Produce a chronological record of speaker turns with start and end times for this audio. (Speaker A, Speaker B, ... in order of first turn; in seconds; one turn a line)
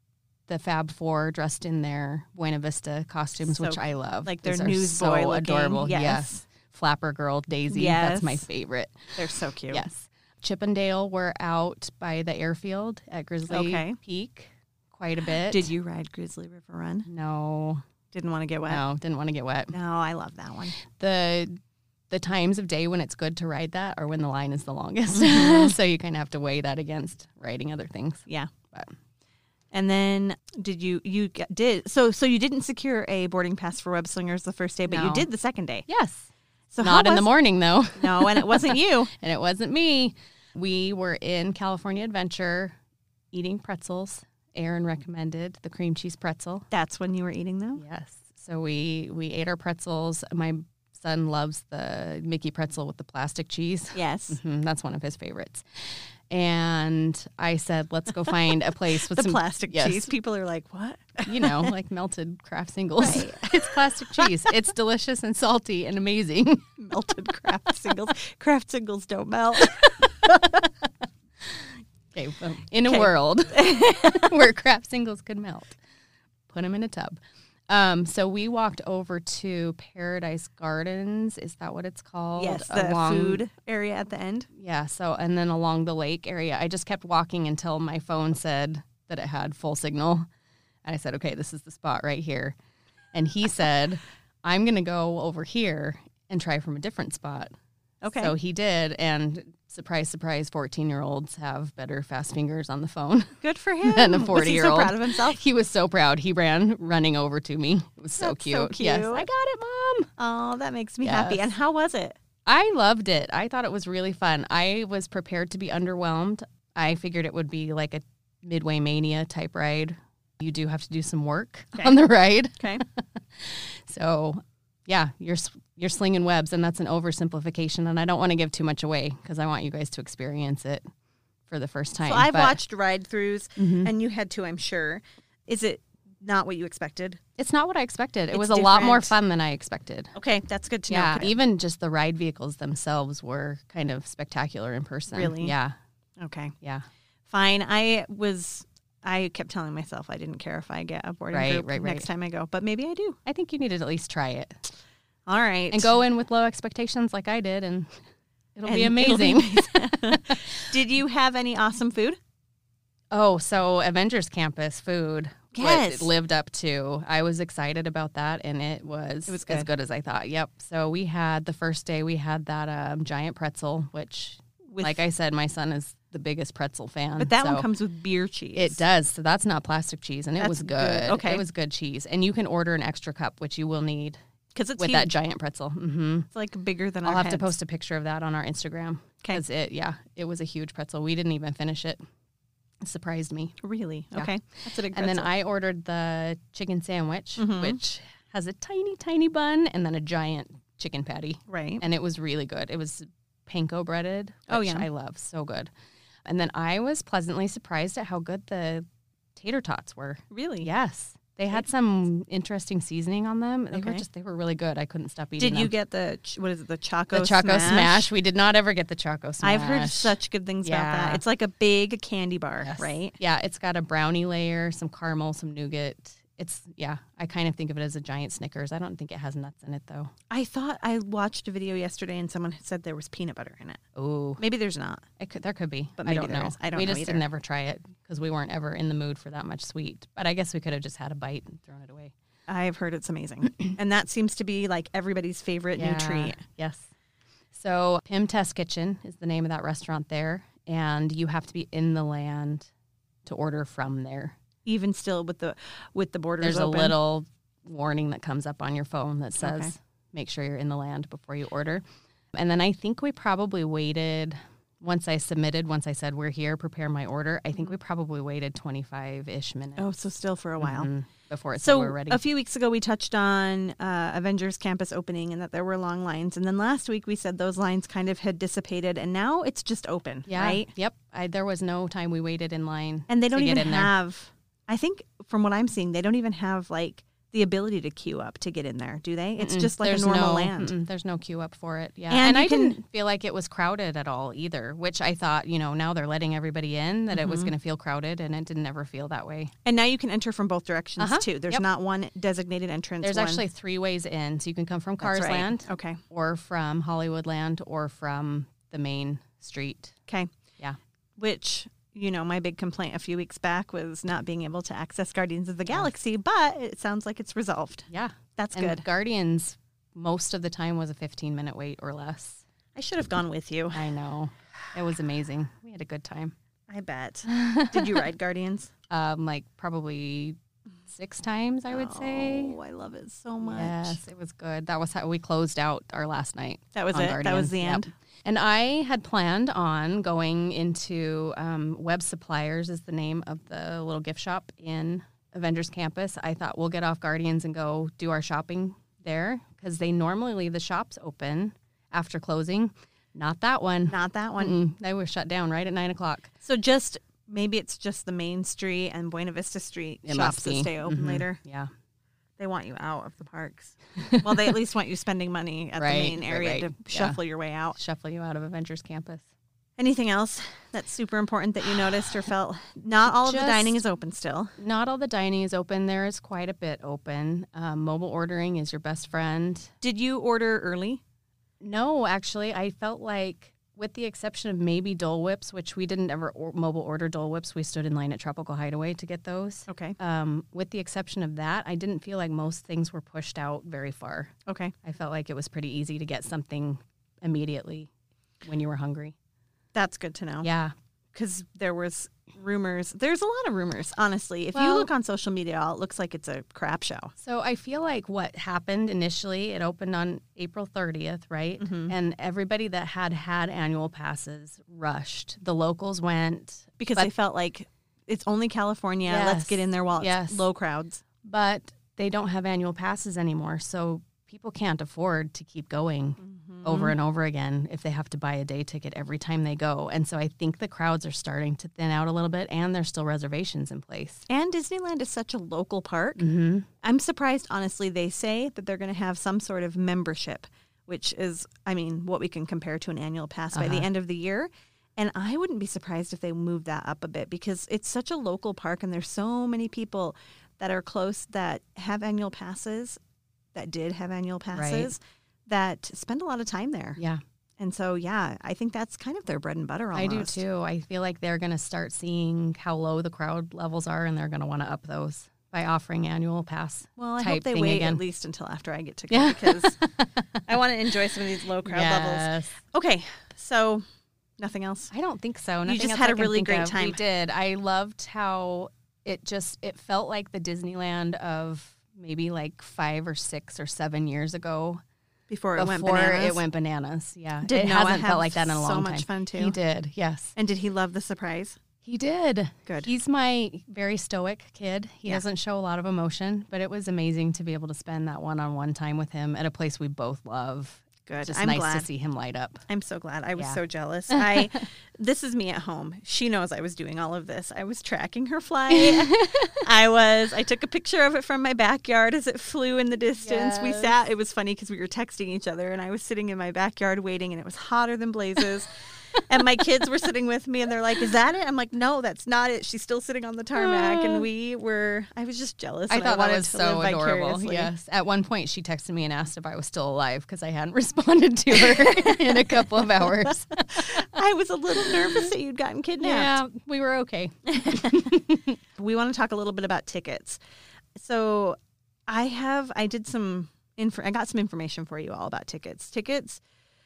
Speaker A: 0.5-15.7
Speaker B: 3.5-6.4
Speaker B: 7.7-8.5
Speaker B: 9.2-9.8
Speaker B: 13.5-14.0
Speaker B: 15.5-17.1
Speaker A: 17.1-17.8
Speaker B: 18.1-18.8
Speaker A: 18.7-19.8
Speaker B: 19.7-20.8
Speaker A: 20.9-21.6
Speaker A: 22.1-28.9
Speaker B: 25.2-25.7
Speaker B: 29.7-35.9
Speaker A: 34.9-35.3
Speaker A: 35.9-36.3
Speaker B: 36.7-37.3
Speaker A: 36.8-42.8
Speaker B: 38.0-39.1
Speaker A: 43.3-46.7
Speaker B: 46.7-47.8
Speaker A: 47.8-55.6
Speaker B: 54.0-54.4
Speaker A: 56.3-60.1
Speaker B: 59.1-61.7
Speaker A: 61.2-66.7
Speaker B: 63.0-64.3
Speaker B: 66.8-70.6
Speaker A: 71.4-75.8
Speaker B: 72.9-74.3
Speaker A: 76.5-83.4
Speaker B: 82.4-84.5
Speaker A: 84.5-90.3
Speaker A: 90.8-92.6
Speaker A: 93.1-97.5
Speaker B: 98.0-98.3
Speaker A: 98.1-110.1
Speaker B: 103.4-105.4
Speaker B: 108.2-109.3
Speaker B: 110.2-112.2
Speaker A: 111.0-111.5
Speaker A: 112.5-130.8
Speaker A: 131.5-132.6
Speaker B: 132.1-137.2
Speaker A: 133.6-133.9
Speaker A: 137.4-140.1
Speaker B: 138.3-139.1
Speaker B: 140.2-141.3
Speaker A: 140.9-145.8
Speaker B: 145.1-145.6
Speaker B: 146.2-146.5
Speaker B: 147.3-153.2
Speaker A: 151.3-152.1
Speaker A: 153.3-154.6
Speaker B: 155.3-155.9
Speaker A: 155.7-158.0
Speaker A: 158.6-160.4
Speaker B: 158.7-162.2
Speaker A: 163.1-177.7
Speaker B: 165.5-166.1
Speaker B: 169.3-169.7
Speaker B: 174.7-175.0
Speaker B: 177.2-178.8
Speaker A: 178.6-184.2
Speaker B: 180.4-181.4
Speaker B: 184.6-185.1
Speaker A: 184.8-186.3
Speaker B: 186.3-187.5
Speaker A: 187.1-192.0
Speaker A: 192.8-193.6
Speaker B: 193.6-195.3
Speaker A: 194.9-205.7
Speaker B: 197.4-197.8
Speaker B: 201.5-201.8
Speaker B: 204.5-204.9
Speaker A: 206.2-215.7
Speaker B: 210.3-210.7
Speaker B: 213.7-214.0
Speaker B: 215.4-218.1
Speaker A: 217.1-221.2
Speaker B: 219.4-223.2
Speaker A: 222.6-230.1
Speaker B: 230.3-233.8
Speaker A: 234.0-234.4
Speaker B: 234.4-235.1
Speaker A: 235.2-242.1
Speaker B: 236.0-237.2
Speaker B: 242.5-246.4
Speaker A: 245.8-246.9
Speaker A: 247.5-252.7
Speaker A: 253.2-254.4
Speaker B: 254.7-257.0
Speaker A: 256.4-261.8
Speaker B: 259.4-259.7
Speaker A: 262.3-269.9
Speaker B: 269.8-270.9
Speaker A: 270.6-272.2
Speaker B: 271.6-280.7
Speaker A: 280.3-283.9
Speaker B: 283.1-290.7
Speaker A: 289.4-299.5
Speaker B: 292.1-292.8
Speaker B: 297.1-297.5
Speaker B: 299.6-303.4
Speaker A: 301.0-301.6
Speaker A: 303.0-309.9
Speaker B: 305.0-306.0
Speaker B: 311.2-318.9
Speaker A: 317.9-322.4
Speaker B: 322.8-323.9
Speaker A: 323.7-326.4
Speaker B: 326.7-328.7
Speaker A: 327.3-328.1
Speaker A: 328.9-330.4
Speaker A: 330.9-332.6
Speaker B: 331.7-334.0
Speaker A: 333.4-356.3
Speaker B: 336.8-337.9
Speaker B: 353.9-354.6
Speaker B: 356.4-361.4
Speaker A: 360.1-361.7
Speaker B: 362.4-367.8
Speaker A: 364.0-364.5
Speaker A: 365.8-367.2
Speaker A: 367.8-369.3
Speaker B: 369.8-374.6
Speaker A: 373.1-373.8
Speaker A: 374.6-379.7
Speaker B: 379.8-381.0
Speaker A: 381.6-394.3
Speaker B: 389.7-390.0
Speaker B: 394.5-394.7
Speaker A: 394.8-397.9
Speaker A: 398.4-399.1
Speaker B: 399.8-400.5
Speaker A: 400.4-400.7
Speaker B: 401.1-407.1
Speaker A: 404.5-404.9
Speaker A: 407.2-417.1
Speaker B: 411.6-411.9
Speaker B: 416.8-421.0
Speaker A: 419.1-420.4
Speaker A: 421.2-434.2
Speaker B: 426.2-426.9
Speaker B: 434.3-436.2
Speaker A: 436.2-436.7
Speaker B: 436.8-453.0
Speaker A: 443.5-443.9
Speaker B: 453.6-457.0
Speaker A: 454.5-454.9
Speaker A: 457.0-457.2
Speaker B: 457.6-460.4
Speaker A: 459.9-468.0
Speaker B: 467.0-469.8
Speaker A: 469.1-470.4
Speaker B: 470.5-473.8
Speaker A: 471.6-472.6
Speaker B: 474.4-474.9
Speaker A: 474.9-484.8
Speaker B: 475.7-477.0
Speaker B: 485.3-486.4
Speaker A: 485.6-490.4
Speaker B: 487.4-489.6
Speaker B: 490.4-491.6
Speaker A: 491.8-502.6
Speaker B: 492.7-492.9
Speaker B: 501.1-501.9
Speaker B: 502.7-527.7
Speaker A: 503.4-504.5
Speaker A: 508.7-509.6
Speaker A: 513.2-514.0
Speaker A: 523.5-524.3
Speaker A: 525.9-534.1
Speaker B: 531.6-536.4
Speaker A: 534.9-535.3
Speaker A: 536.0-538.6
Speaker B: 537.5-538.2
Speaker B: 538.8-540.4
Speaker B: 541.0-541.6
Speaker B: 542.1-546.4